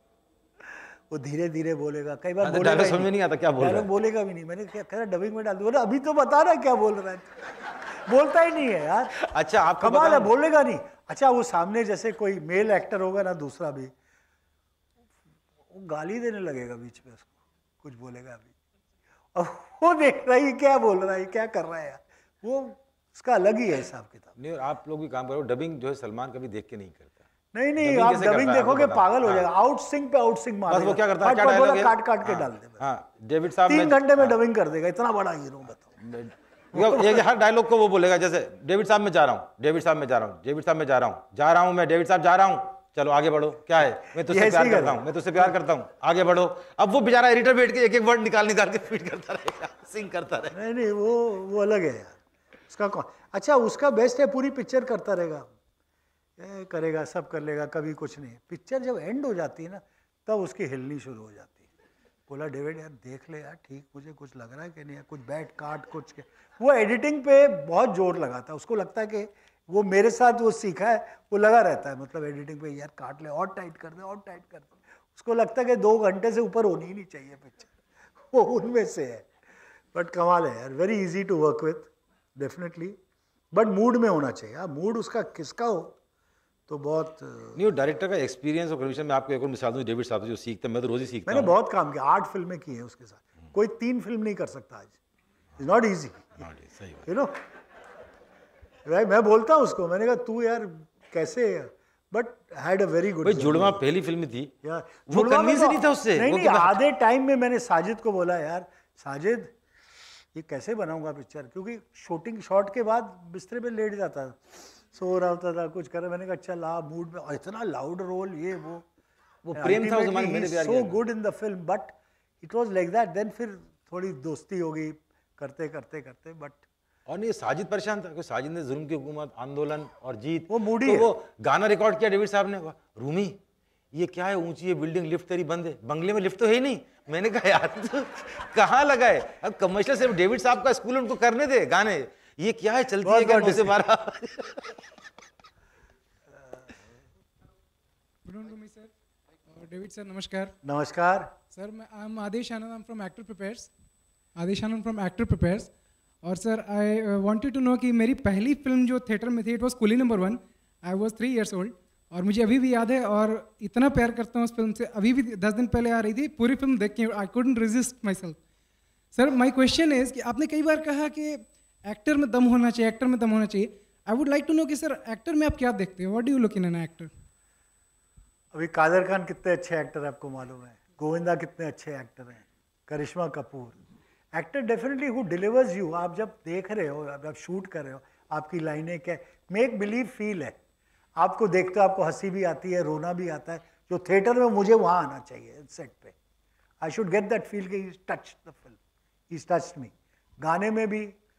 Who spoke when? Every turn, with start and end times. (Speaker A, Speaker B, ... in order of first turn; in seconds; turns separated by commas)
Speaker A: 0.6-9.1, Speaker B: 2.4-3.9, Speaker B: 9.2-10.3, Speaker A: 9.8-13.9, Speaker A: 15.7-17.3, Speaker A: 17.8-18.5, Speaker A: 19.3-24.3, Speaker B: 24.4-27.2, Speaker A: 27.5-32.8, Speaker B: 27.8-29.4, Speaker B: 30.7-34.4, Speaker A: 33.7-35.8, Speaker B: 36.0-50.5, Speaker A: 36.7-37.2, Speaker A: 44.0-45.5, Speaker A: 50.5-55.5, Speaker A: 56.4-61.7, Speaker A: 62.3-77.7, Speaker A: 78.2-79.3, Speaker A: 79.9-83.0, Speaker A: 83.5-85.9, Speaker A: 86.7-87.6, Speaker B: 87.5-91.5, Speaker A: 91.3-94.9, Speaker A: 95.6-96.4, Speaker B: 96.4-97.0, Speaker A: 97.0-97.4, Speaker A: 98.8-103.8, Speaker B: 103.2-104.5, Speaker A: 104.6-109.5, Speaker B: 105.1-106.8, Speaker A: 110.3-118.8, Speaker B: 119.4-121.0, Speaker A: 119.5-126.6, Speaker B: 127.1-133.4, Speaker A: 130.5-131.1, Speaker B: 133.9-144.8, Speaker A: 143.0-143.8, Speaker C: 148.2-148.9, Speaker C: 149.5-150.5, Speaker A: 150.6-151.3, Speaker C: 151.5-153.7, Speaker C: 154.4-155.7, Speaker C: 156.2-168.4, Speaker C: 169.1-177.1, Speaker A: 178.5-183.8, Speaker A: 184.3-190.5, Speaker A: 191.2-196.1, Speaker A: 196.8-198.8, Speaker A: 199.3-201.1